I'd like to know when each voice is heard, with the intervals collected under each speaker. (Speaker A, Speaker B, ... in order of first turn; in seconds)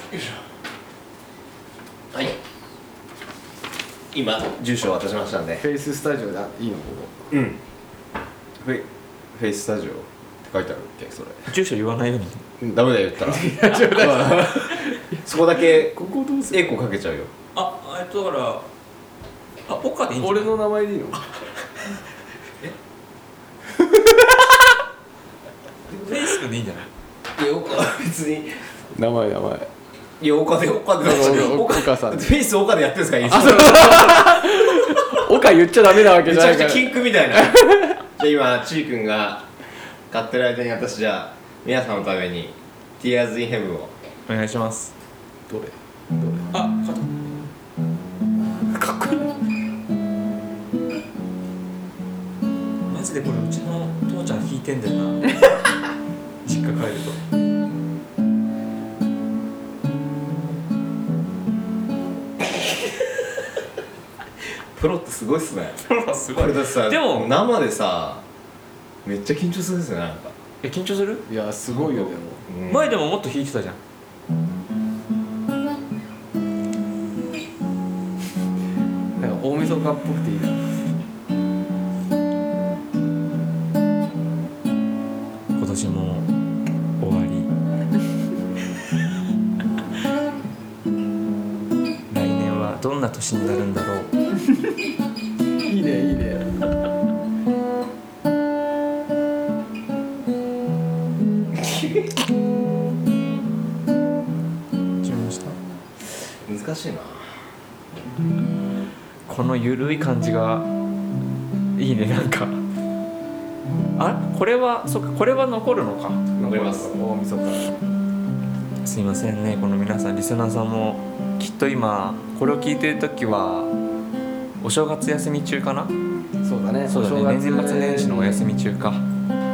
Speaker A: 2.1-2.4, 4.1-5.6, 7.3-7.6, 8.6-11.5, 12.7-14.6, 15.2-15.9, 16.5-17.3, 27.4-28.5, 30.2-34.3, 36.1-37.6, 38.2-39.5, 40.1-43.9, 64.7-68.2, 69.0-70.3, 72.5-72.9, 101.6-102.1, 106.4-107.2, 116.5-116.9
Speaker B: 5.6-7.1, 13.2-16.8, 20.2-21.2, 28.9-29.7, 31.0-32.3, 33.2-38.0, 45.5-46.5, 48.7-49.3, 71.3-72.4, 79.2-80.7, 95.6-96.5, 116.3-117.7, 126.4-128.4
Speaker C: 11.5-12.4, 17.5-18.6, 19.7-20.5, 25.9-26.9, 44.3-44.9, 46.5-47.4, 52.9-55.4, 56.4-57.2, 65.9-67.3, 70.6-72.1, 72.6-73.8, 85.5-86.3, 87.0-87.5, 92.1-94.1, 105.0-105.5, 109.3-110.7, 111.8-112.6, 114.0-116.2, 118.8-123.7, 124.6-125.9, 126.9-129.0